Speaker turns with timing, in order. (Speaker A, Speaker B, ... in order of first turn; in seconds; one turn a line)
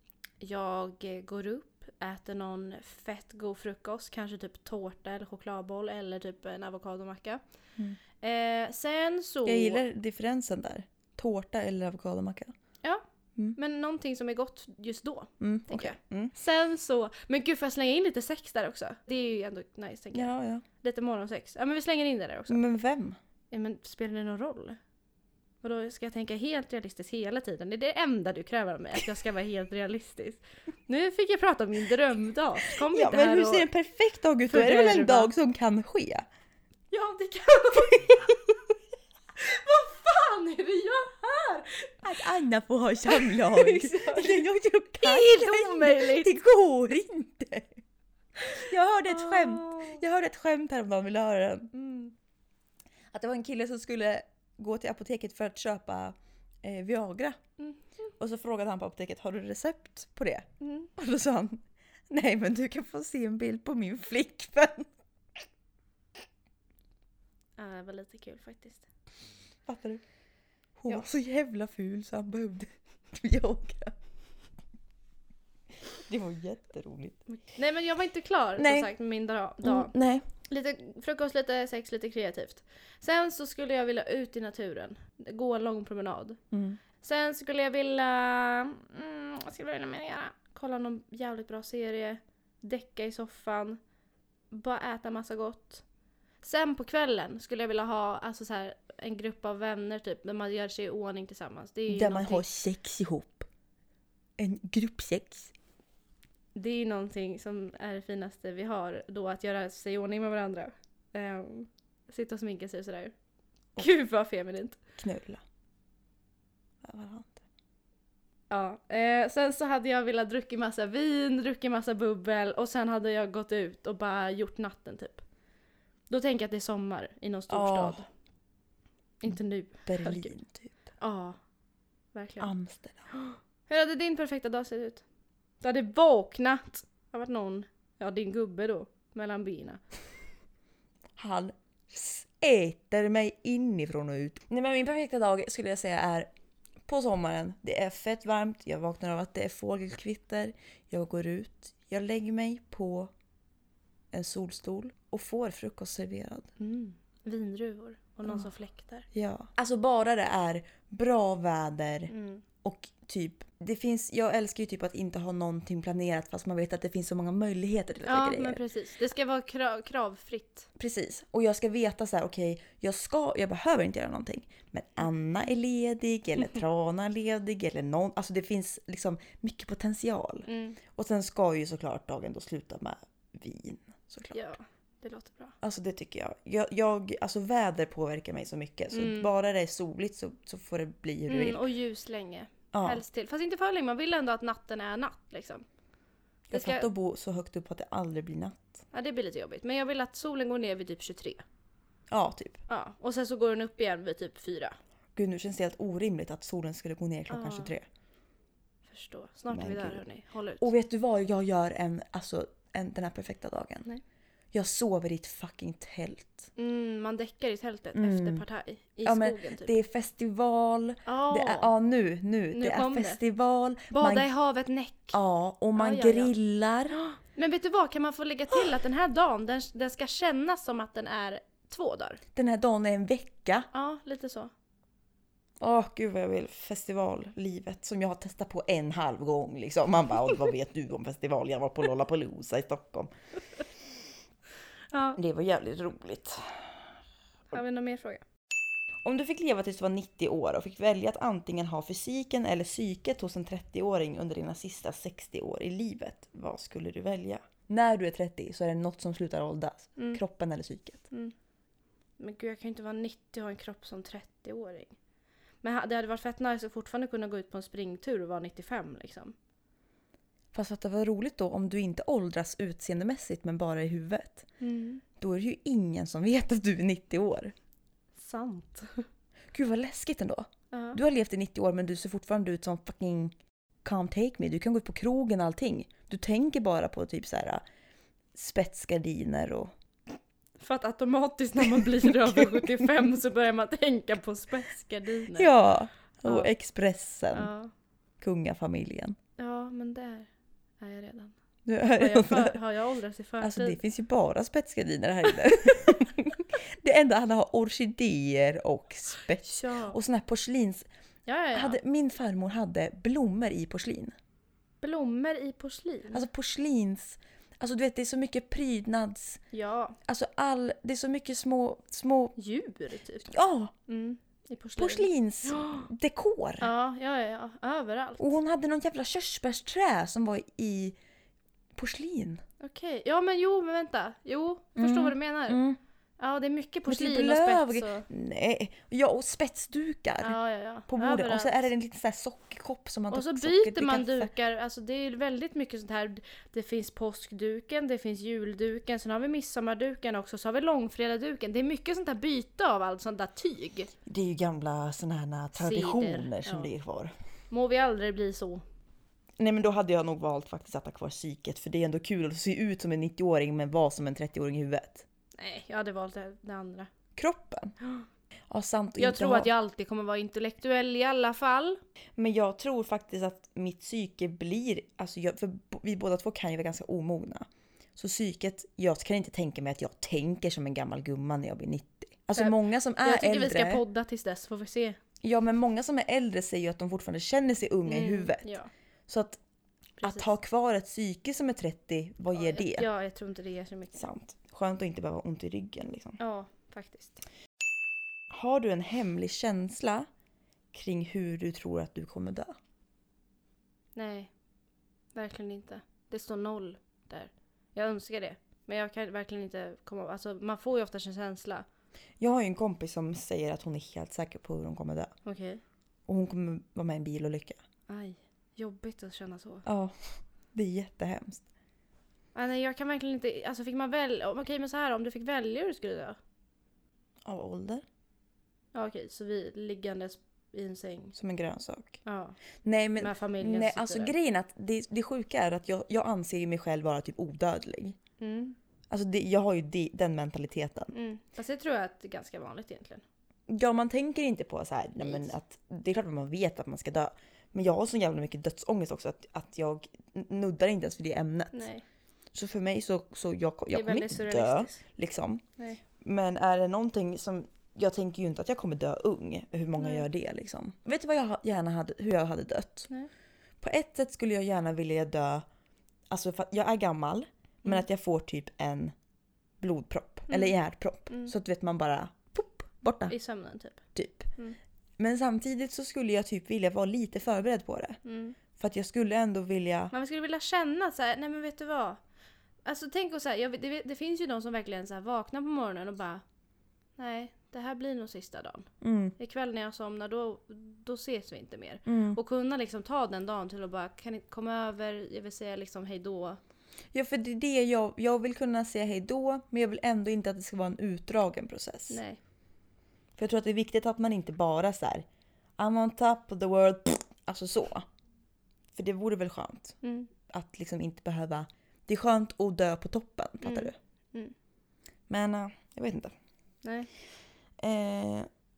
Speaker A: 0.4-7.4
Speaker A: 8.2-9.8
Speaker B: 9.4-12.5
Speaker A: 13.6-22.6
Speaker B: 15.4-16.3
Speaker B: 20.1-20.6
Speaker B: 22.5-23.2
Speaker A: 23.5-24.8
Speaker A: 25.6-33.7
Speaker B: 32.8-36.2
Speaker A: 34.5-35.3
Speaker A: 36.9-38.4
Speaker A: 39.4-42.0
Speaker B: 42.0-47.7
Speaker A: 43.1-44.5
Speaker A: 45.0-46.3
Speaker B: 48.5-51.7
Speaker A: 49.1-50.0
Speaker A: 51.7-52.1
Speaker B: 53.1-57.4
Speaker B: 58.2-64.9
Speaker A: 60.6-60.9
Speaker A: 67.6-68.9
Speaker B: 69.7-70.0
Speaker B: 70.8-73.9
Speaker B: 75.9-77.2
Speaker A: 77.3-79.9
Speaker B: 78.6-78.9
Speaker B: 79.6-80.2
Speaker A: 80.5-86.4
Speaker B: 86.5-86.8
Speaker A: 87.0-93.8
Speaker A: 94.5-95.8
Speaker A: 96.4-102.4
Speaker B: 101.9-103.5
Speaker B: 104.4-105.5
Speaker A: 106.5-113.1
Speaker A: 113.8-114.8
Speaker B: 115.0-115.4
Speaker B: 116.8-117.4
Speaker A: 118.5-125.2
Speaker A: 126.1-128.1
Speaker B: 127.5-128.0
Speaker A: 129.2-130.3
Speaker B: 129.8-130.8
Speaker A: 131.0-131.4
Speaker A: 132.1-132.5
Speaker B: 132.4-133.1
Speaker A: 133.1-135.0
Speaker A: 135.6-139.8
Speaker B: 141.2-146.3
Speaker B: 146.8-153.1
Speaker B: 154.1-156.5
Speaker A: 156.6-159.1
Speaker B: 159.1-162.1
Speaker A: 162.1-162.4
Speaker B: 162.6-168.6
Speaker A: 168.1-170.7
Speaker B: 170.8-184.5
Speaker A: 180.4-180.8
Speaker A: 184.3-185.6
Speaker B: 185.6-191.6
Speaker A: 188.9-189.3
Speaker A: 191.3-195.6
Speaker B: 192.7-193.0
Speaker B: 196.5-198.8
Speaker A: 196.5-196.9
Speaker A: 198.9-201.4
Speaker B: 202.1-202.6
Speaker A: 202.7-204.8
Speaker B: 205.2-207.8
Speaker A: 207.3-207.7
Speaker A: 208.9-210.7
Speaker B: 209.5-210.0
Speaker B: 210.6-213.9
Speaker B: 214.5-216.5
Speaker A: 216.6-219.7
Speaker B: 217.9-218.4
Speaker B: 219.0-224.3
Speaker A: 221.1-221.7
Speaker A: 222.5-223.2
Speaker A: 223.9-225.2
Speaker B: 225.1-227.0
Speaker A: 225.7-226.3
Speaker A: 227.0-232.2
Speaker B: 232.3-233.7
Speaker A: 233.7-234.5
Speaker B: 235.6-243.1
Speaker A: 244.9-245.2
Speaker B: 245.2-246.7
Speaker A: 247.5-248.2
Speaker B: 249.0-261.1
Speaker A: 262.2-264.9
Speaker A: 265.6-269.3
Speaker B: 270.5-274.5
Speaker A: 274.6-275.0
Speaker B: 275.2-277.5
Speaker A: 278.2-279.1
Speaker B: 279.5-287.6
Speaker A: 280.7-281.0
Speaker B: 288.3-289.7
Speaker A: 290.6-295.5
Speaker B: 291.6-292.9
Speaker B: 295.3-297.5
Speaker A: 297.3-297.7
Speaker B: 298.2-299.1
Speaker A: 299.4-300.3
Speaker A: 300.8-301.3
Speaker B: 301.6-302.6
Speaker A: 302.0-303.8
Speaker B: 303.4-310.9
Speaker A: 309.4-310.0
Speaker A: 311.2-311.8
Speaker B: 311.5-314.1
Speaker A: 314.8-316.2
Speaker B: 316.1-319.4
Speaker A: 319.5-320.0
Speaker B: 320.1-322.3
Speaker A: 322.4-323.3
Speaker B: 323.3-323.7
Speaker A: 323.9-325.9
Speaker B: 324.8-326.7
Speaker A: 326.6-328.3
Speaker B: 328.2-331.0
Speaker B: 331.7-332.4
Speaker A: 332.6-335.6
Speaker B: 334.8-335.8
Speaker A: 336.2-338.1
Speaker B: 336.9-344.3
Speaker A: 340.2-341.7
Speaker A: 343.1-353.9
Speaker B: 354.1-357.1
Speaker A: 355.6-356.7
Speaker A: 357.5-358.6
Speaker B: 359.4-365.0
Speaker A: 365.4-366.9
Speaker B: 367.1-367.7
Speaker B: 368.5-369.5
Speaker A: 369.0-371.8
Speaker B: 372.2-377.4
Speaker B: 377.9-383.8
Speaker A: 382.3-385.0
Speaker B: 385.2-388.5
Speaker A: 387.9-388.7
Speaker B: 389.1-389.4
Speaker A: 390.0-390.3
Speaker B: 390.0-392.9
Speaker A: 392.3-394.1
Speaker B: 393.9-396.2
Speaker A: 396.2-397.2
Speaker B: 398.3-400.1
Speaker B: 400.7-402.5
Speaker A: 403.9-404.3
Speaker A: 405.1-411.6
Speaker B: 412.2-415.1
Speaker A: 415.2-415.6
Speaker B: 416.1-417.6
Speaker A: 417.9-419.6
Speaker B: 419.6-421.4
Speaker A: 422.3-426.1
Speaker B: 427.2-427.8
Speaker A: 428.7-431.1
Speaker B: 431.1-432.0
Speaker A: 432.0-432.4
Speaker B: 432.6-438.0
Speaker A: 433.0-434.1
Speaker A: 438.2-438.6
Speaker B: 438.9-440.9
Speaker A: 440.9-443.0
Speaker B: 443.5-451.7
Speaker A: 445.0-445.3
Speaker A: 451.5-451.8
Speaker B: 452.3-455.4
Speaker A: 453.7-454.8
Speaker B: 456.0-462.9
Speaker A: 459.8-460.1
Speaker B: 463.6-465.4
Speaker B: 466.1-468.9
Speaker B: 469.6-473.1
Speaker A: 470.3-470.5
Speaker A: 473.1-473.8
Speaker B: 473.9-474.3
Speaker B: 475.0-478.0
Speaker A: 478.0-478.4
Speaker B: 478.6-479.9
Speaker A: 479.9-482.0
Speaker A: 482.6-486.2
Speaker A: 487.0-488.7
Speaker B: 488.8-489.1
Speaker A: 489.2-496.4
Speaker B: 491.9-492.2
Speaker B: 496.9-502.0
Speaker A: 501.9-502.2
Speaker B: 503.2-505.0
Speaker B: 505.6-507.9
Speaker B: 508.7-509.8
Speaker A: 509.8-510.1
Speaker B: 510.3-513.8
Speaker A: 513.4-514.3
Speaker B: 515.1-516.1
Speaker A: 516.6-516.9
Speaker B: 517.6-518.3